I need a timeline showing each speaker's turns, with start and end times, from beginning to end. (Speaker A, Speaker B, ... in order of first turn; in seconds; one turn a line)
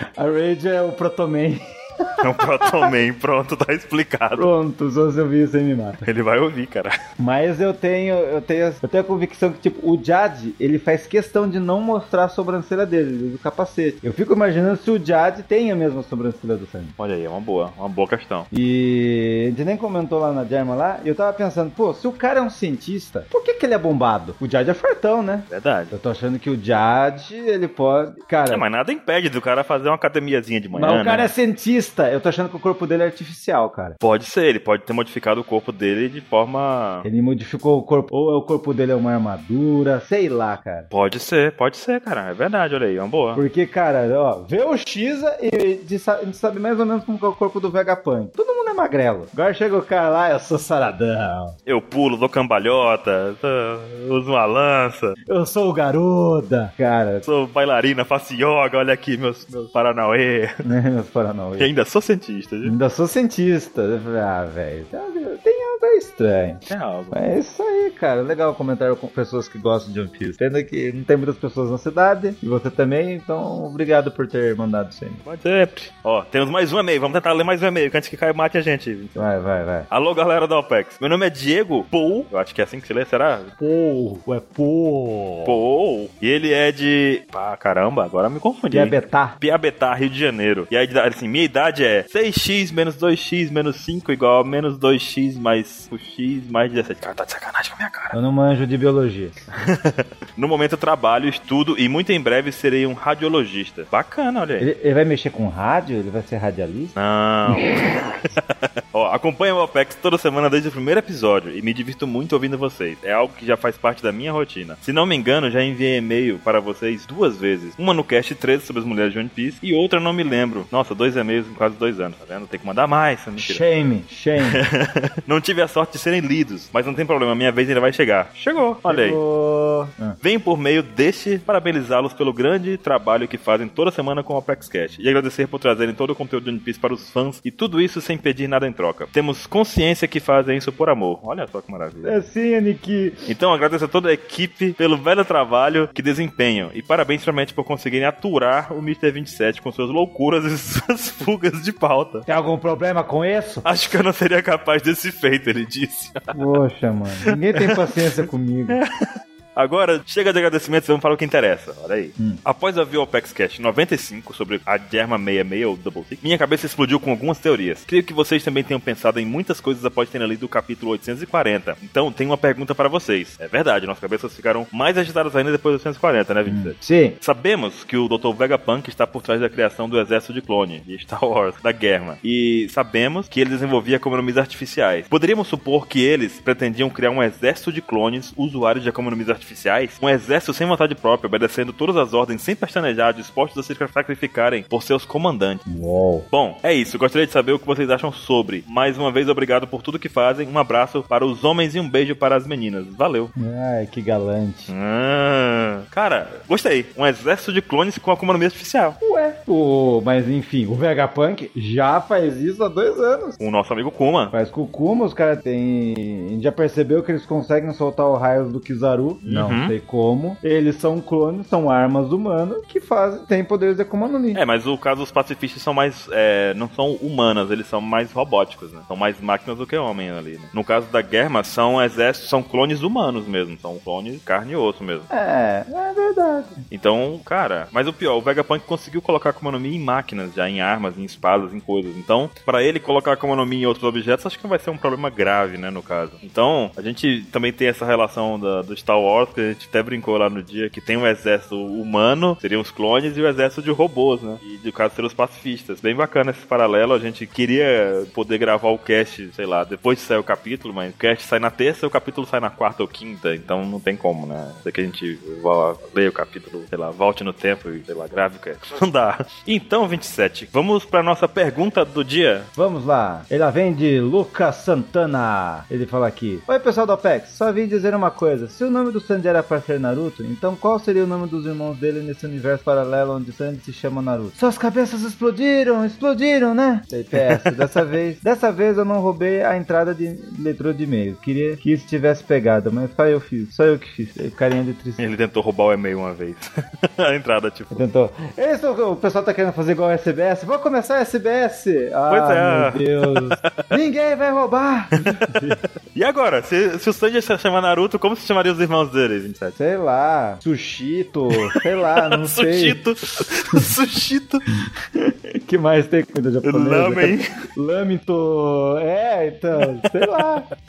Speaker A: 0.2-2.9
Speaker B: 2.2-4.5
Speaker A: 4.3-6.0
Speaker B: 6.0-6.9
Speaker A: 7.2-16.9
Speaker B: 17.0-18.5
Speaker A: 18.5-28.7
Speaker B: 25.5-25.9
Speaker B: 28.5-31.3
Speaker A: 30.7-34.0
Speaker B: 34.0-37.1
Speaker A: 37.0-40.9
Speaker B: 40.9-43.4
Speaker A: 43.4-51.5
Speaker B: 51.7-55.2
Speaker A: 55.3-57.2
Speaker B: 57.2-60.5
Speaker A: 60.6-61.7
Speaker B: 61.6-62.7
Speaker A: 62.6-75.2
Speaker B: 66.7-67.2
Speaker B: 75.2-79.2
Speaker A: 79.2-79.9
Speaker B: 79.9-83.5
Speaker A: 83.6-85.6
Speaker B: 85.5-98.2
Speaker A: 88.7-89.4
Speaker A: 98.1-99.4
Speaker B: 99.6-104.7
Speaker A: 104.6-106.9
Speaker B: 107.0-123.6
Speaker A: 107.5-108.2
Speaker A: 123.4-124.6
Speaker B: 124.4-129.2
Speaker A: 128.8-130.2
Speaker B: 130.2-142.2
Speaker A: 142.0-143.3
Speaker B: 143.3-152.3
Speaker A: 152.3-153.7
Speaker B: 153.7-156.4
Speaker A: 156.3-158.8
Speaker B: 158.7-195.6
Speaker A: 176.5-177.2
Speaker A: 195.7-196.3
Speaker B: 196.3-203.3
Speaker A: 203.4-204.7
Speaker B: 204.7-209.0
Speaker A: 209.0-213.4
Speaker B: 213.4-214.3
Speaker A: 214.3-224.4
Speaker B: 219.2-219.8
Speaker B: 224.3-235.1
Speaker A: 235.1-236.6
Speaker B: 236.7-272.5
Speaker A: 272.6-295.1
Speaker B: 287.1-287.5
Speaker B: 295.0-297.8
Speaker A: 297.7-305.6
Speaker B: 302.1-303.7
Speaker B: 305.9-309.6
Speaker A: 309.6-312.8
Speaker B: 311.4-314.4
Speaker A: 314.9-320.5
Speaker B: 316.4-317.3